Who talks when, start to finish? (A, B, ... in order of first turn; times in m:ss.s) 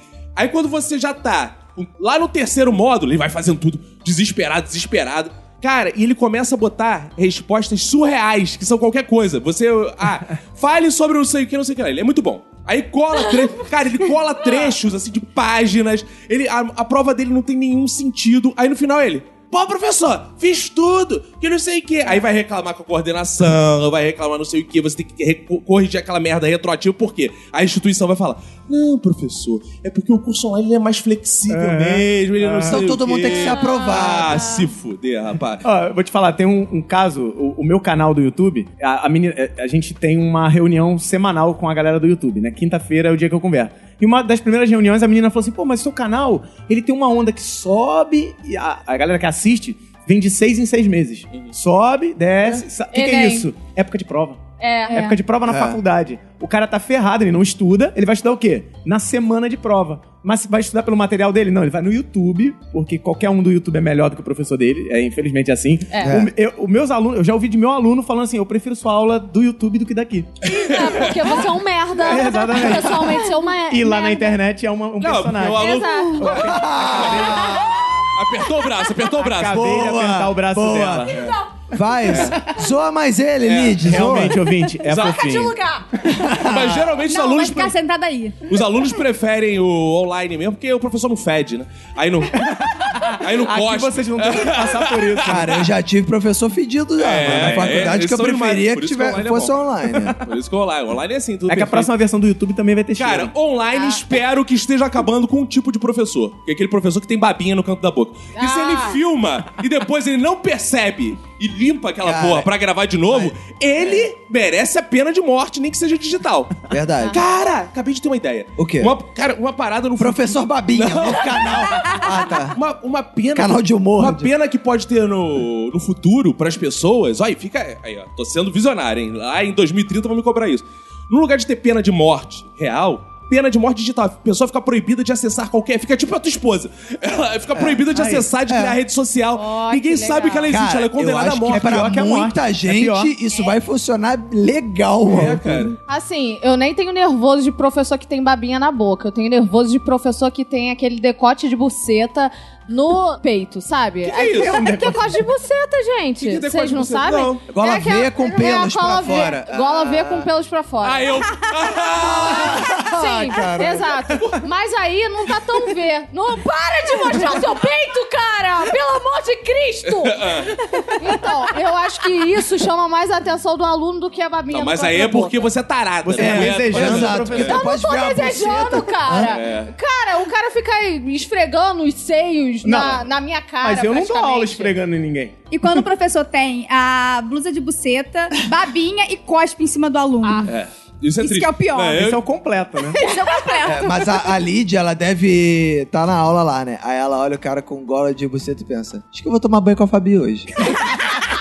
0:00.4-0:35.6 A
0:31.5-0:32.8 B
0:32.6-0:34.5 C
0:33.2-0:34.7 D
0:35.6-1:10.3 B
0:52.9-0:53.5 D
0:54.6-0:55.2 D
0:55.5-0:55.8 C
1:05.9-1:06.2 D
1:06.0-1:06.3 C
1:10.4-1:14.3 D
1:10.7-1:11.3 A
1:12.0-1:17.5 B
1:15.0-1:16.4 A
1:15.5-1:16.5 D
1:16.3-1:18.0 C
1:17.3-1:18.0 D
1:18.1-1:19.6 A
1:19.1-1:21.2 B
1:19.5-1:21.2 C
1:21.1-1:21.5 D
1:21.7-1:24.4 C
1:23.4-1:23.8 A
1:23.8-1:25.5 B
1:24.8-1:25.3 A
1:25.0-1:25.9 D
1:26.2-1:27.0 C
1:26.3-1:27.7 A
1:27.1-1:28.5 E
1:28.5-1:35.7 A
1:32.4-1:35.5 B
1:35.2-1:40.2 C
1:37.0-1:39.5 A
1:37.2-1:37.9 B
1:40.1-1:41.9 A
1:41.5-1:43.3 B
1:43.0-1:56.5 A
1:43.7-1:44.0 D
1:48.4-1:49.0 D
1:52.0-1:52.5 C
1:53.1-1:54.1 C
1:56.7-1:57.2 C
1:57.1-2:21.9 A
1:58.6-1:58.9 C
2:00.0-2:02.6 C
2:03.3-2:04.3 C
2:17.5-2:17.9 C
2:17.9-2:18.3 B
2:18.5-2:18.8 C
2:19.3-2:20.6 D
2:20.5-2:25.8 C
2:21.4-2:23.1 B
2:25.1-2:25.8 A
2:25.9-2:41.1 D
2:34.0-2:35.2 B
2:34.1-2:34.6 A
2:36.2-2:37.4 A
2:37.5-2:40.3 C
2:40.8-2:42.6 A
2:42.0-2:44.0 C
2:42.1-2:50.3 D
2:49.8-2:50.5 A
2:51.0-2:55.5 D
2:54.5-2:57.6 A
2:56.0-2:57.6 B
2:56.1-2:59.4 C
2:57.4-3:04.7 D
2:59.2-2:59.7 A
3:02.6-3:03.0 B
3:03.6-3:05.4 B
3:05.5-3:10.5 E
3:10.5-3:12.2 A
3:11.2-3:12.0 E
3:11.9-3:13.0 B
3:13.0-3:14.3 E
3:13.0-3:13.3 D
3:13.6-3:20.7 C